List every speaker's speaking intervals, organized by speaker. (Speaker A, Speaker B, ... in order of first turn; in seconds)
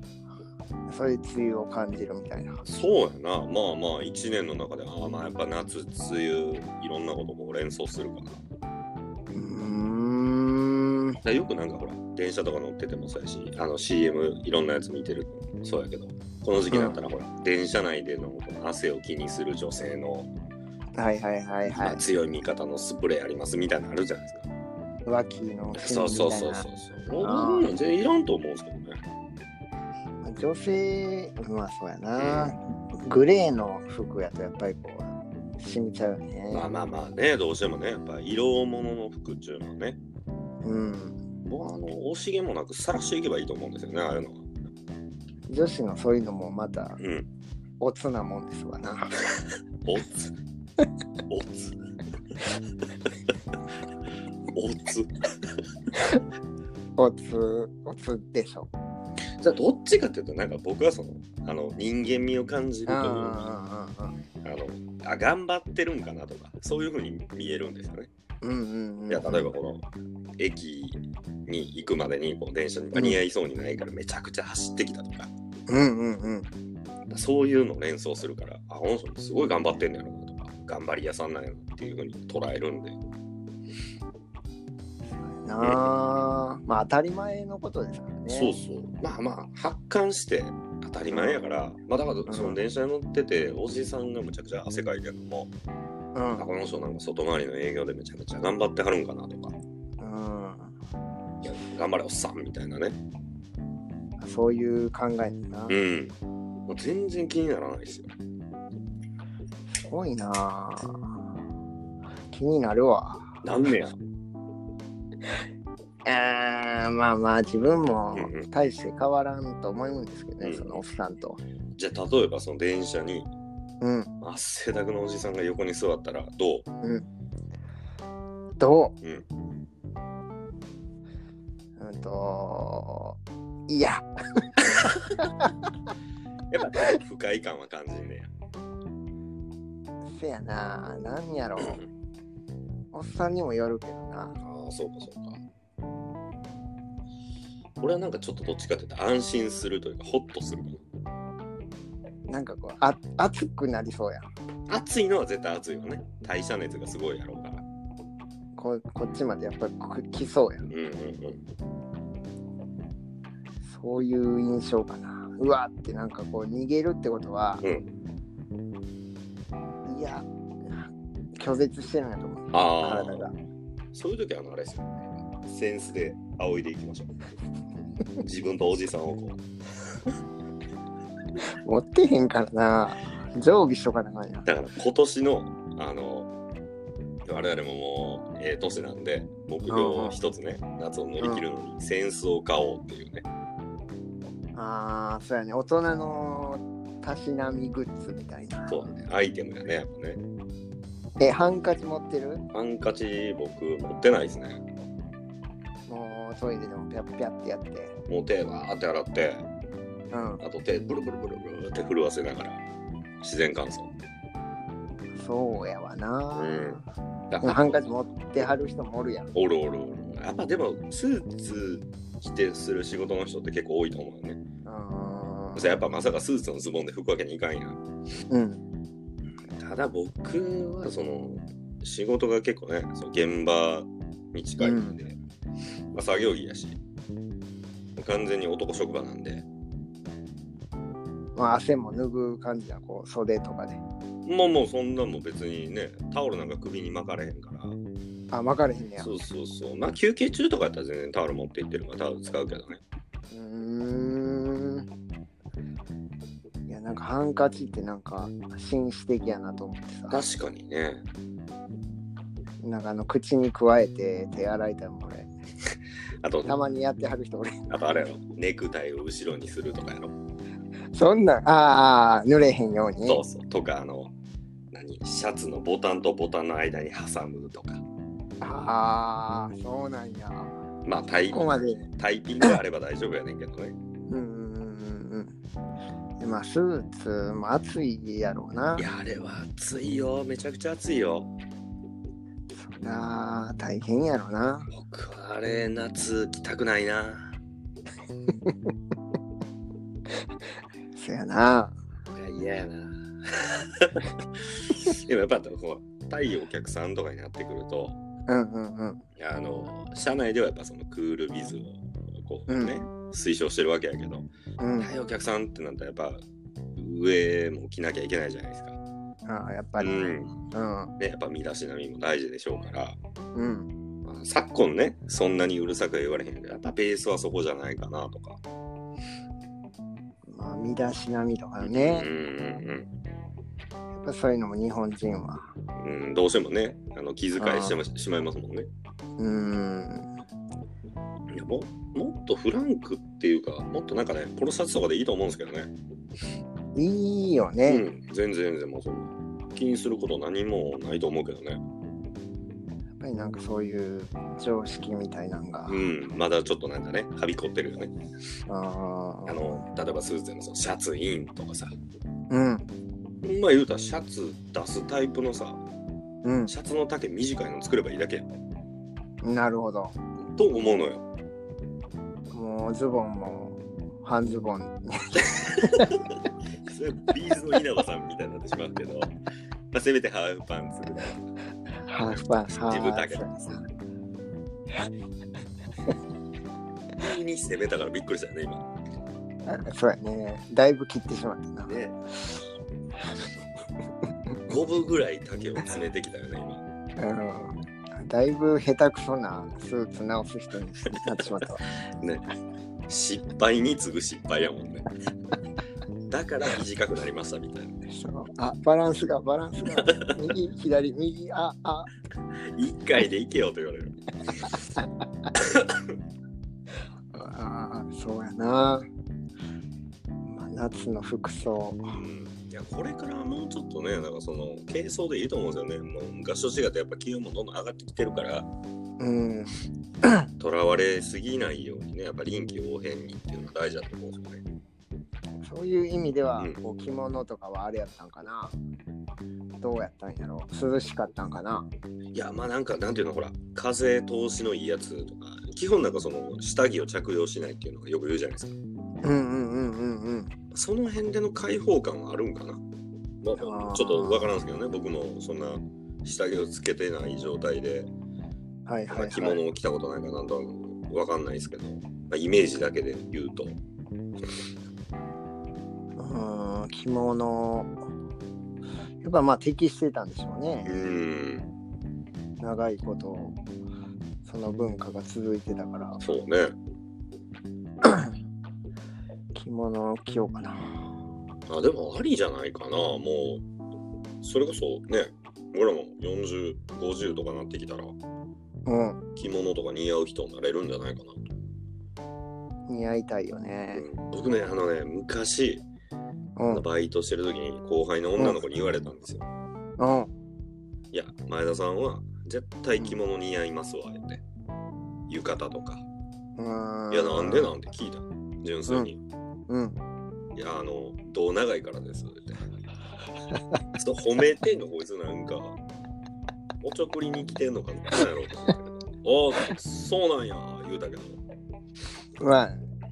Speaker A: 0.9-2.6, 9.3-11.2, 16.7-17.0, 20.9-22.0, 25.1-26.6, 27.2-27.7, 30.2-36.7, 40.6-41.2, 45.5-47.0, 47.8-49.2, 56.0-56.2, 57.0-58.7, 62.9-64.2, 68.4-69.5, 72.9-73.2, 75.7-76.5, 85.1-88.5, 91.1-91.4, 92.3-92.6, 96.1-96.4, 100.0-100.7, 104.2-105.8, 109.8-111.2, 112.3-113.4, 116.0-121.4, 123.8-124.1, 128.6-128.9, 131.8-135.7, 140.1-141.8, 142.9-144.4, 152.3-154.3, 158.6-160.7, 163.7-167.6, 169.8-173.3, 181.5-184.5, 189.7-190.2, 194.5-198.9, 201.2-202.4, 205.9-207.9, 210.1-210.4, 215.2-216.8, 217.4-219.3, 224.6-225.8, 228.3-228.6, 234.6-235.0, 241.3-243.8, 248.3-249.1, 253.3-254.9, 256.7-260.2, 262.6-265.3, 266.4-267.6, 270.9-273.2, 278.4-280.5, 281.3-281.9, 284.1-285.4, 286.2-288.9, 292.5-294.7, 298.4-298.7, 300.9-301.7, 308.3-309.0, 312.5-312.8, 314.6-314.9, 319.2-319.9, 320.5-320.9, 323.3-323.7, 330.3-332.1, 334.0-335.5, 337.4-337.8, 339.2-340.1, 346.7-347.9, 353.0-355.9, 358.5-359.4, 362.3-362.7, 366.2-366.5, 369.2-369.9, 372.3-375.9, 381.8-383.6, 389.4-391.8, 397.0-401.6, 407.9-411.9, 417.1-418.9, 420.2-422.0, 429.0-430.3, 435.4-438.6, 439.6-441.7, 449.0-450.3, 453.3-454.3, 458.7-459.4, 466.0-467.7, 469.0-470.7, 472.4-473.4, 474.2-476.0, 477.8-478.1, 479.3-481.0, 488.6-489.0, 492.7-493.9, 496.4-496.6, 499.8-500.1, 506.4-507.5, 509.5-509.8, 522.2-522.6
Speaker B: 2.6-8.4, 11.2-20.3, 21.7-24.5, 25.7-29.0, 32.2-32.5, 36.5-40.0, 41.4-44.5, 47.0-47.3, 49.8-50.3, 51.3-51.8, 53.0-53.3, 54.5-55.6, 59.4-63.4, 64.4-68.1, 69.1-69.8, 70.4-75.3, 77.1-83.0, 85.6-85.9, 88.3-95.5, 96.4-99.5, 101.4-103.0, 105.7-106.1, 106.7-108.1, 113.4-114.0, 118.1-118.5, 120.4-120.8, 121.8-123.3, 124.2-126.7, 136.5-138.3, 144.4-145.4, 147.8-150.8, 154.7-157.6, 160.7-161.4, 167.6-167.9, 172.5-173.3, 173.9-177.1, 178.2-180.1, 184.4-186.3, 187.2-193.2, 198.7-200.2, 202.5-204.6, 208.1-209.4, 210.4-212.6, 213.2-213.9, 216.3-217.8, 219.3-224.4, 225.6-227.8, 229.6-235.2, 235.9-236.8, 237.9-239.4, 244.2-247.8, 249.0-252.8, 260.1-261.0, 266.2-266.5, 267.7-270.1, 273.1-274.1, 274.7-277.8, 280.8-283.8, 288.8-291.3, 294.7-297.4, 302.1-308.0, 309.1-316.2, 316.8-318.8, 319.8-320.3, 321.0-323.0, 324.0-328.4, 331.6-332.9, 335.8-338.7, 341.3-345.7, 347.6-351.6, 355.7-357.9, 359.2-361.7, 363.2-365.6, 366.5-368.3, 370.2-371.0, 375.4-376.1, 376.6-379.1, 379.7-381.2, 382.2-383.6, 387.0-388.6, 391.6-392.0, 394.5-396.6, 401.1-401.4, 402.0-402.3, 402.9-404.9, 406.1-407.8, 409.7-410.3, 412.5-414.6, 415.3-416.0, 421.9-428.5, 430.4-434.4, 442.1-448.6, 450.5-452.6, 453.2-457.9, 458.9-463.6, 470.6-471.5, 476.0-476.6, 481.5-483.4, 484.2-487.9, 489.1-491.2, 493.7-495.6, 496.5-499.2, 500.9-504.2, 505.1-505.8, 506.9-509.0, 510.3-512.5, 513.7-515.6, 516.6-521.2